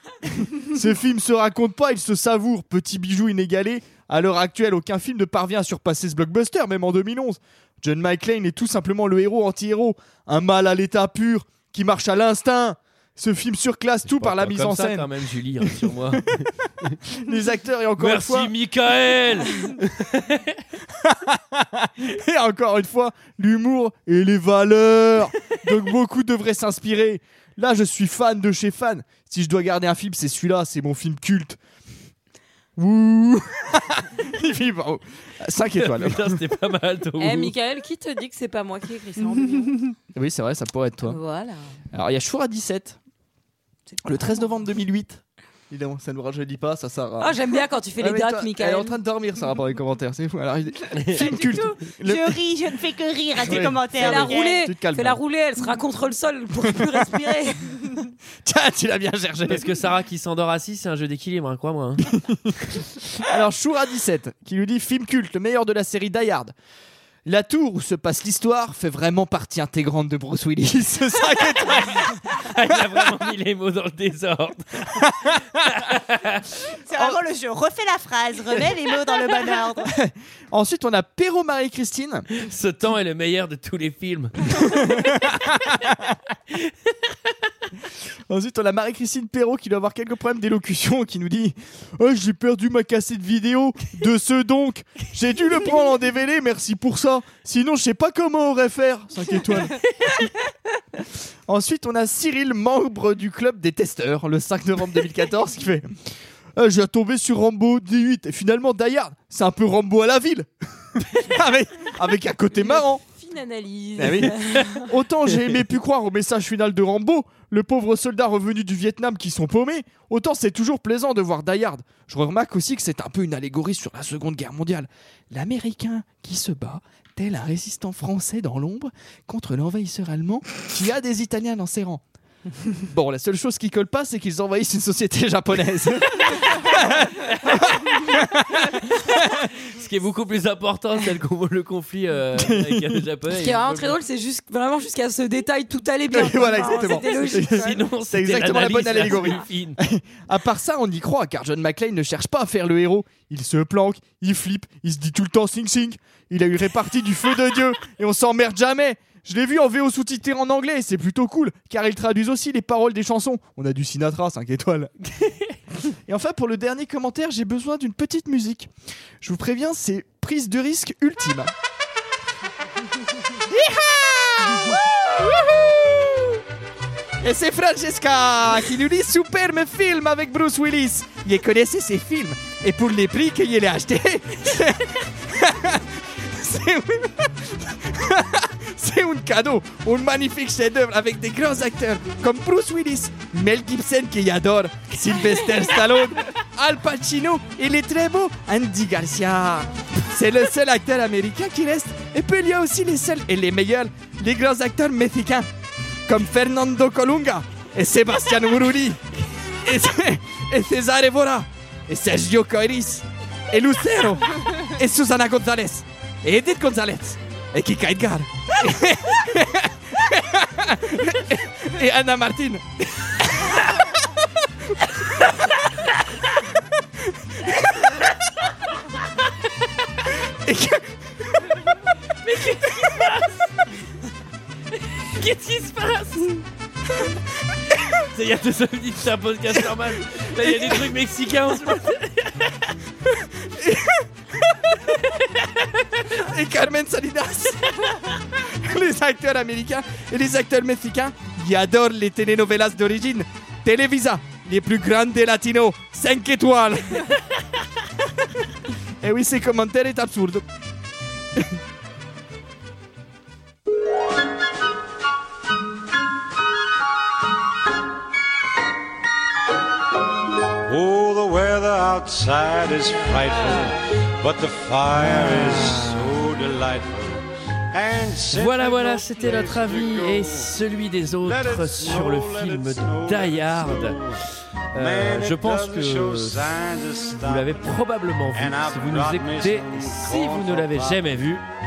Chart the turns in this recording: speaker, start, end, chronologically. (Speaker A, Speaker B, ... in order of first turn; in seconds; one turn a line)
Speaker A: 0.3-16.2
Speaker B: 14.1-17.0
Speaker A: 17.1-18.5
Speaker B: 18.0-20.6
Speaker A: 20.9-31.6
Speaker A: 32.8-36.4
Speaker B: 35.8-37.5
Speaker C: 37.2-39.8
Speaker A: 40.1-41.2
Speaker C: 41.0-41.8
Speaker A: 41.9-43.0
Speaker A: 44.0-47.4
Speaker C: 47.2-49.0
Speaker A: 48.0-52.4
Speaker B: 50.9-51.5
Speaker D: 51.2-54.6
Speaker A: 53.4-55.2
Speaker C: 54.0-57.9
Speaker A: 56.7-57.2
Speaker A: 58.4-59.7
Speaker B: 59.5-62.0
Speaker A: 62.1-62.5
Speaker A: 63.1-66.5
Speaker A: 67.2-73.1
Speaker B: 72.2-76.6
Speaker D: 76.9-79.9
Speaker A: 79.9-82.3
Speaker B: 82.3-85.9
Speaker B: 86.5-87.3
Speaker A: 88.3-99.8
Speaker A: 101.5-106.0
Speaker A: 106.5-113.0
Speaker C: 112.6-114.9
Speaker A: 114.0-132.0
Speaker A: 132.7-139.2
Speaker B: 137.2-143.9
Speaker A: 142.3-143.0
Speaker C: 143.3-147.8
Speaker A: 146.1-164.9
Speaker B: 147.1-149.8
Speaker C: 149.1-149.4
Speaker A: 166.1-168.7
Speaker A: 169.2-171.5
Speaker A: 173.5-175.5
Speaker A: 177.2-205.5
Speaker A: 206.1-209.0
Speaker A: 209.6-223.9
Speaker A: 224.8-225.8
Speaker A: 227.4-227.9
Speaker A: 230.4-231.4
Speaker B: 232.2-233.4
Speaker B: 234.9-236.4
Speaker B: 237.8-242.7
Speaker A: 243.5-244.1
Speaker B: 245.0-246.0
Speaker A: 246.1-257.2
Speaker A: 259.0-260.4
Speaker E: 270.7-280.5
Speaker B: 275.3-276.1
Speaker B: 278.3-284.1
Speaker E: 281.2-284.2
Speaker B: 284.7-286.6
Speaker E: 284.8-287.8
Speaker B: 287.2-291.4
Speaker E: 288.3-291.4